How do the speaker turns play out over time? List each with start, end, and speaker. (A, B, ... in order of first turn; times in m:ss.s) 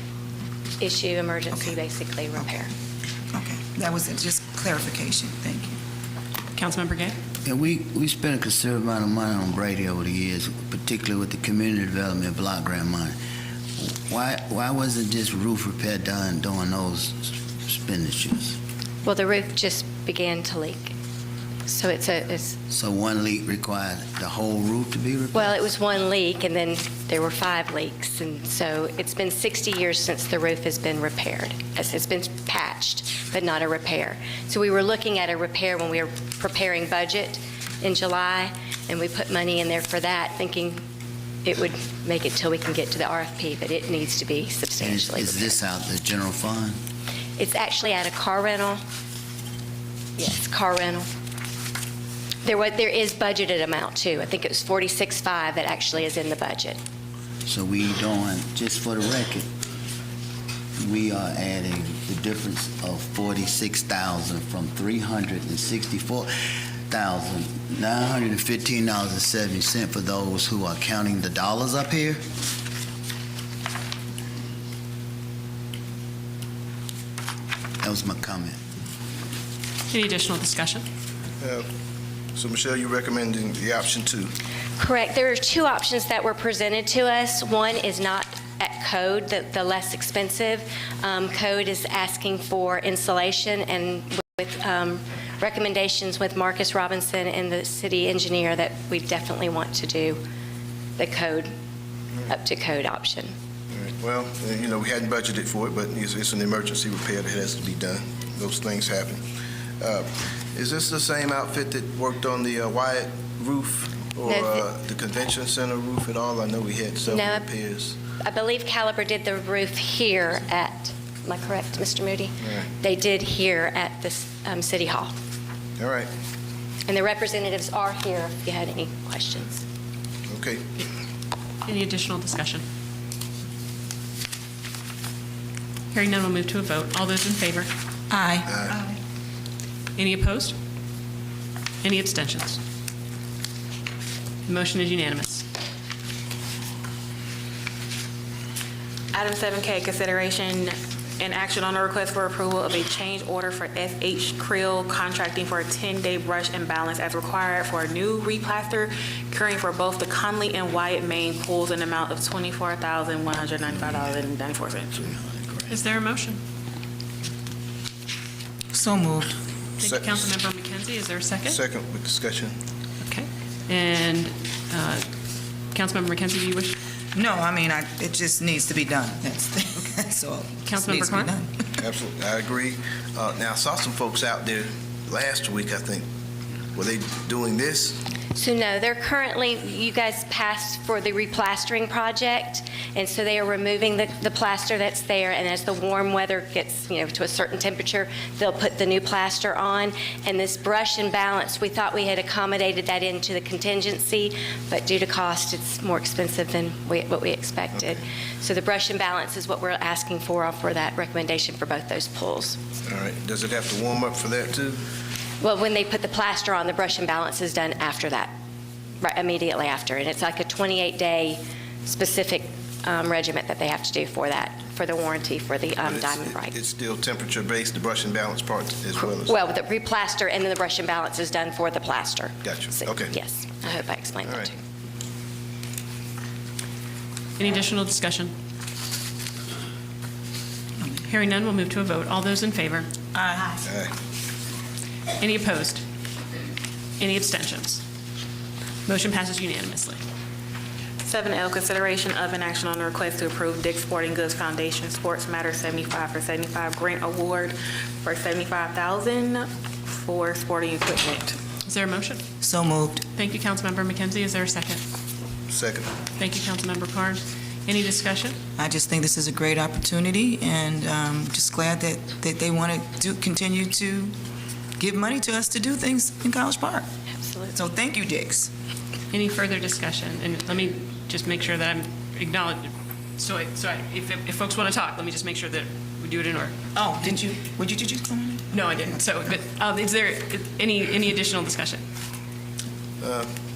0:00.8-0:02.7 A
0:03.3-0:05.8 B
0:06.5-0:07.2 C
0:07.4-0:13.2 D
0:13.8-0:18.6 D
0:19.0-0:20.9 A
0:21.6-0:22.6 A
0:22.7-0:25.6 D
0:25.3-0:40.8 A
0:41.4-0:45.6 A
0:44.8-0:46.8 D
0:47.4-0:48.8 A
0:50.2-0:51.1 A
0:52.4-0:56.8 A
0:57.4-0:59.5 D
1:00.8-1:06.3 D
1:06.9-1:12.2 D
1:17.8-1:18.6 D
1:19.9-1:20.8 C
1:21.4-1:21.6 E
1:22.4-1:24.3 E
1:24.8-1:40.2 A
1:41.0-1:41.5 A
1:42.3-1:43.3 A
1:43.7-1:49.2 E
1:49.8-1:58.0 E
1:54.2-1:54.6 A
1:57.1-1:57.4 A
1:58.2-2:05.1 A
2:05.8-2:06.1 E
2:06.9-2:09.6 A
2:10.3-2:10.8 E
2:11.6-2:12.6 C
2:15.9-2:17.7 C
2:18.1-2:19.0 B
2:18.4-2:18.8 E
2:20.0-2:20.5 C
2:21.8-2:22.6 C
2:24.4-2:25.4 C
2:29.1-2:45.1 F
2:43.7-2:44.1 D
2:45.0-2:45.7 D
2:45.7-2:46.4 C
2:48.7-2:49.3 B
2:49.8-2:51.6 C
2:49.8-2:50.3 E
2:51.5-2:52.5 E
2:53.0-2:55.0 C
2:55.7-2:56.8 C
2:57.1-3:01.7 B
3:00.6-3:01.3 C
3:01.8-3:06.0 E
3:06.7-3:08.0 E
3:08.3-3:32.6 A
3:32.8-3:34.8 E
3:35.4-3:38.3 A
3:39.0-3:46.6 A
3:45.8-3:49.4 E
3:49.0-3:54.6 A
3:52.4-3:53.1 E
3:57.4-3:58.3 C
4:00.8-4:01.0 B
4:01.1-4:02.9 C
4:03.1-4:03.6 B
4:03.6-4:03.9 E
4:05.2-4:05.8 C
4:07.0-4:07.8 C
4:08.8-4:10.0 C
4:11.0-4:21.4 F
4:21.6-4:22.2 C
4:22.4-4:23.1 B
4:23.1-4:24.8 C
4:25.5-4:25.9 E
4:26.2-4:28.4 C
4:28.6-4:34.1 B
4:34.8-4:36.9 B
4:37.1-4:37.6 A
4:37.5-4:38.5 B
4:39.1-4:47.2 C
4:46.7-4:49.0 B
4:48.5-4:51.8 C
4:53.0-4:53.3 E